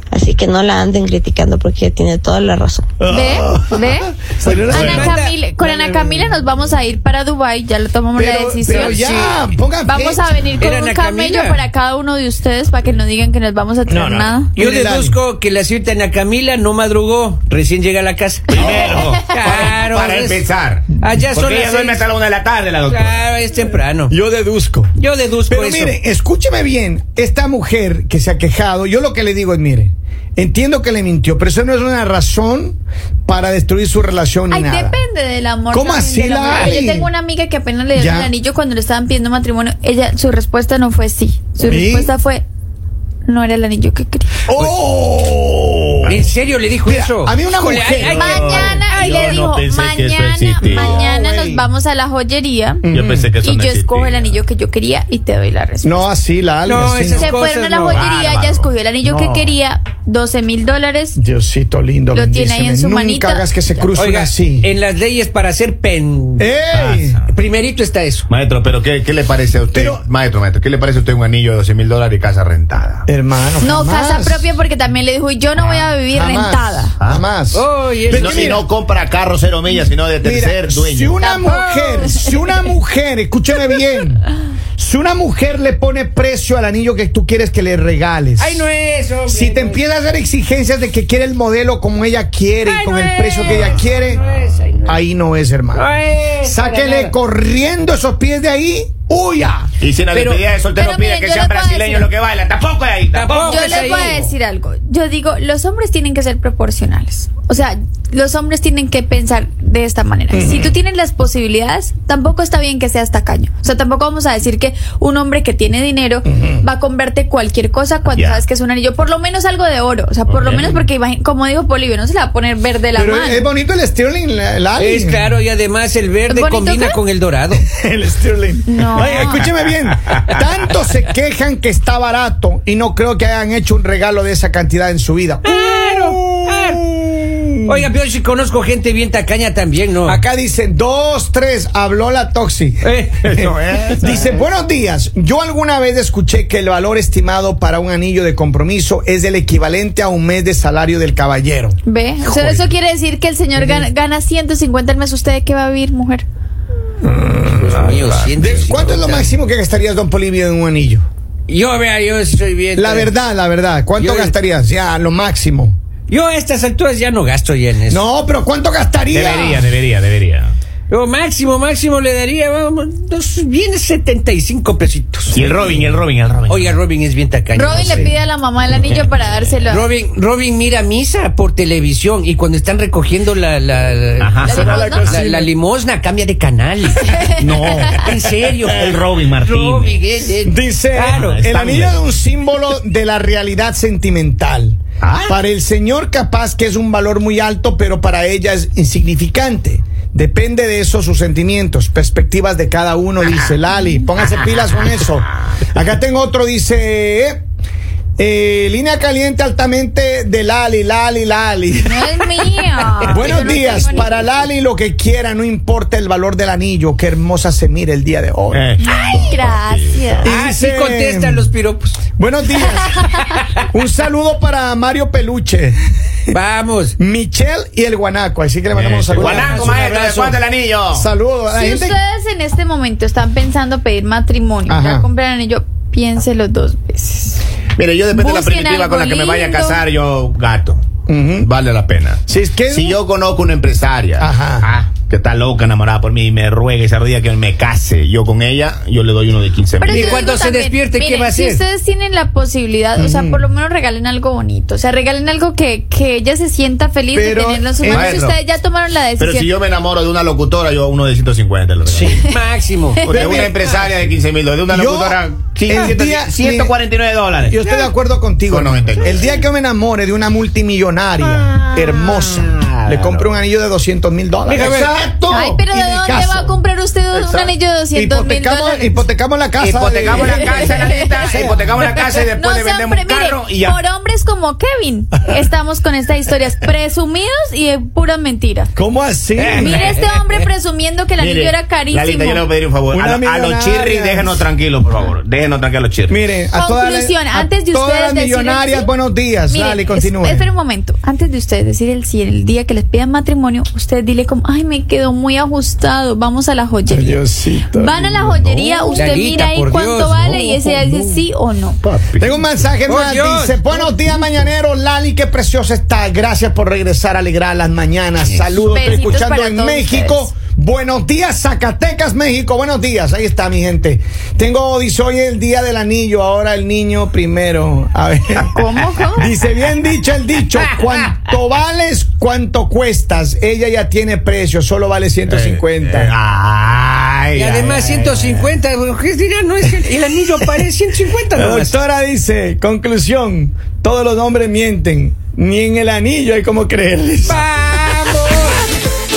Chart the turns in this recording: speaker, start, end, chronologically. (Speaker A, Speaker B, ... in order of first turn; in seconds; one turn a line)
Speaker A: 0.1-3.0
Speaker B: 3.0-5.2
Speaker C: 3.1-4.1
Speaker D: 4.5-6.3
Speaker E: 4.7-5.0
Speaker C: 4.7-9.2
Speaker B: 8.2-10.7
Speaker D: 8.7-9.3
Speaker C: 9.8-14.5
Speaker D: 10.6-11.6
Speaker B: 13.9-15.2
Speaker D: 14.6-20.4
Speaker E: 18.5-23.3
Speaker B: 18.5-19.2
Speaker C: 18.8-19.6
Speaker D: 21.0-22.1
Speaker D: 22.8-24.1
Speaker B: 24.1-24.9
Speaker D: 25.0-25.9
Speaker B: 25.5-35.0
Speaker C: 34.5-42.4
Speaker B: 35.7-37.1
Speaker B: 37.9-38.3
Speaker B: 41.6-42.1
Speaker C: 43.2-44.3
Speaker B: 44.5-46.3
Speaker D: 44.5-44.8
Speaker D: 46.0-49.5
Speaker B: 46.8-48.8
Speaker E: 48.0-51.1
Speaker C: 48.1-52.8
Speaker B: 50.6-51.7
Speaker B: 52.8-53.3
Speaker E: 52.9-54.4
Speaker C: 53.4-56.1
Speaker B: 55.8-57.3
Speaker D: 56.6-58.1
Speaker C: 57.2-61.2
Speaker E: 57.9-59.5
Speaker B: 61.2-64.7
Speaker C: 62.1-63.5
Speaker D: 63.9-66.6
Speaker B: 66.4-67.2
Speaker E: 66.7-67.3
Speaker D: 67.3-68.3
Speaker E: 68.3-73.0
Speaker B: 69.7-70.0
Speaker B: 73.1-74.5
Speaker C: 73.6-76.9
Speaker E: 75.6-75.9
Speaker B: 76.1-78.7
Speaker D: 77.5-78.6
Speaker E: 78.1-81.2
Speaker B: 80.2-88.7
Speaker C: 81.2-82.4
Speaker D: 81.4-82.1
Speaker D: 88.4-89.8
Speaker B: 89.3-94.2
Speaker D: 92.6-95.0
Speaker E: 93.5-94.5
Speaker B: 94.8-95.9
Speaker D: 95.7-97.1
Speaker B: 96.4-99.7
Speaker E: 99.8-104.2
Speaker D: 100.1-100.4
Speaker C: 100.7-102.1
Speaker D: 103.1-104.3
Speaker C: 103.3-123.5
Speaker B: 110.3-110.8
Speaker B: 116.3-116.7
Speaker E: 118.1-118.4
Speaker E: 120.3-120.8
Speaker B: 122.9-125.4
Speaker D: 124.8-127.6
Speaker C: 126.3-127.0
Speaker B: 127.7-137.9
Speaker C: 128.7-129.5
Speaker E: 129.0-129.4
Speaker E: 130.1-130.4
Speaker D: 135.4-136.8
Speaker D: 137.6-140.2
Speaker B: 140.0-151.8
Speaker D: 142.8-143.4
Speaker E: 143.2-144.4
Speaker C: 151.8-156.2
Speaker E: 152.2-152.7
Speaker B: 153.6-153.9
Speaker B: 157.0-161.0
Speaker D: 157.4-159.3
Speaker E: 157.8-158.3
Speaker D: 161.5-163.1
Speaker B: 162.7-165.7
Speaker D: 164.0-164.3
Speaker D: 166.1-168.0
Speaker B: 167.9-169.7
Speaker E: 169.1-170.5
Speaker D: 170.9-175.4
Speaker E: 175.3-176.7
Speaker D: 176.4-178.1
Speaker C: 177.5-179.8
Speaker D: 179.7-187.1
Speaker E: 184.2-184.6
Speaker C: 184.4-185.1
Speaker B: 184.4-185.5
Speaker C: 187.0-188.0
Speaker E: 187.3-188.1
Speaker D: 187.9-191.4
Speaker E: 188.7-190.0
Speaker B: 190.4-207.4
Speaker E: 191.1-192.0
Speaker E: 195.0-195.3
Speaker B: 208.2-212.2
Speaker C: 211.8-214.2
Speaker B: 213.0-218.8
Speaker E: 218.5-220.2
Speaker C: 218.8-220.3
Speaker B: 220.2-221.5
Speaker D: 220.2-222.0
Speaker B: 222.2-223.1
Speaker D: 223.1-223.4
Speaker B: 223.7-225.8
Speaker D: 226.3-226.9
Speaker B: 227.0-229.8
Speaker E: 228.7-231.1
Speaker D: 229.1-230.4
Speaker B: 230.9-232.0
Speaker C: 231.5-237.4
Speaker B: 234.7-235.1
Speaker E: 237.8-240.8
Speaker C: 238.1-239.8
Speaker B: 241.1-241.5
Speaker E: 241.4-250.2
Speaker B: 242.3-243.0
Speaker B: 244.2-244.7
Speaker C: 249.8-259.5
Speaker D: 249.9-251.6
Speaker B: 253.0-253.5
Speaker B: 257.1-258.1
Speaker E: 257.8-258.4
Speaker E: 259.2-262.2
Speaker D: 261.9-263.1
Speaker C: 263.0-263.5
Speaker E: 263.1-267.6
Speaker B: 263.1-263.7
Speaker B: 264.7-266.7
Speaker B: 267.4-276.6
Speaker E: 268.5-269.4
Speaker E: 271.2-273.3
Speaker D: 274.4-274.9
Speaker E: 274.6-275.6
Speaker C: 275.3-279.0
Speaker E: 277.1-277.5
Speaker B: 277.9-281.6
Speaker E: 279.6-283.8
Speaker C: 280.1-281.5
Speaker C: 282.1-288.7
Speaker B: 288.8-289.9
Speaker D: 289.4-290.4
Speaker C: 289.5-292.4
Speaker E: 291.2-296.2
Speaker B: 292.9-294.4
Speaker B: 296.1-300.5
Speaker C: 296.5-298.9
Speaker C: 299.5-307.2
Speaker B: 306.9-308.5
Speaker C: 307.7-311.8
Speaker E: 308.4-309.0
Speaker D: 308.9-311.2
Speaker E: 311.8-312.5
Speaker B: 312.2-328.6
Speaker D: 312.9-314.3
Speaker C: 318.6-320.3
Speaker C: 328.5-329.3
Speaker B: 329.2-336.1
Speaker E: 335.3-338.6
Speaker D: 337.3-341.8
Speaker B: 341.3-347.4
Speaker D: 347.2-348.6